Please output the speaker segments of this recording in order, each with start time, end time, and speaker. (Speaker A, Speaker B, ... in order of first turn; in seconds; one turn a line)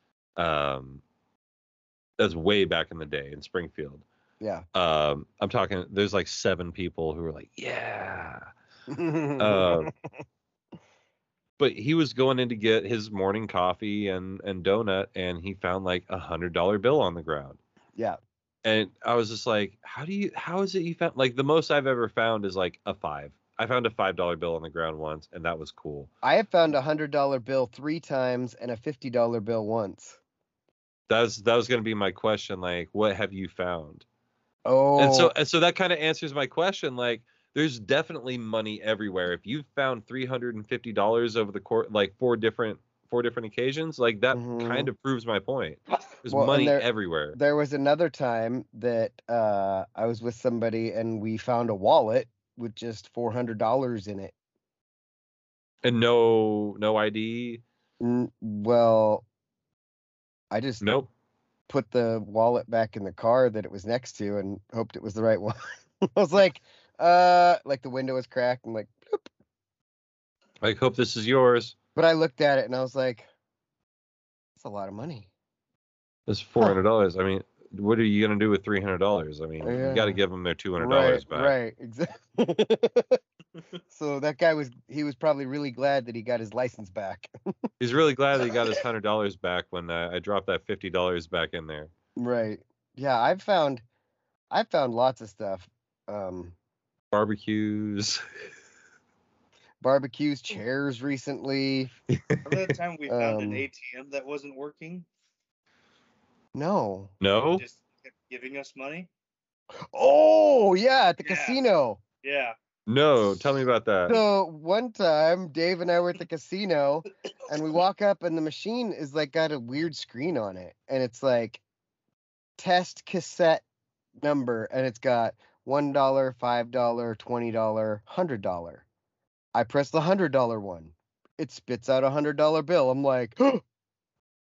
Speaker A: 0.4-1.0
Speaker A: 2.2-4.0
Speaker B: 4.4-4.7
Speaker A: 4.7-8.5
Speaker B: 8.9-9.9
Speaker A: 9.4-9.9
Speaker A: 11.6-17.6
Speaker A: 18.6-26.1
Speaker B: 26.2-30.2
Speaker A: 31.1-34.0
Speaker B: 34.6-35.3
Speaker A: 35.0-47.4
Speaker B: 44.3-44.9
Speaker B: 46.3-54.3
Speaker A: 55.8-57.6
Speaker B: 58.0-59.2
Speaker B: 60.5-60.8
Speaker A: 60.8-61.1
Speaker B: 61.7-69.3
Speaker A: 70.6-71.8
Speaker B: 72.0-73.3
Speaker B: 74.6-75.3
Speaker A: 76.3-81.5
Speaker B: 79.6-80.2
Speaker B: 80.8-83.2
Speaker B: 83.9-87.3
Speaker A: 87.8-91.9
Speaker B: 92.2-93.8
Speaker B: 94.5-96.5
Speaker A: 97.1-98.2
Speaker B: 99.8-102.0
Speaker A: 102.1-102.7
Speaker C: 102.5-105.1
Speaker B: 103.1-103.7
Speaker B: 106.5-107.1
Speaker A: 107.2-107.6
Speaker C: 107.6-109.1
Speaker B: 109.9-112.0
Speaker C: 111.2-111.6
Speaker C: 112.2-112.6
Speaker A: 112.9-114.2
Speaker B: 114.1-121.6
Speaker B: 122.6-123.6
Speaker B: 124.2-128.8
Speaker B: 129.5-133.6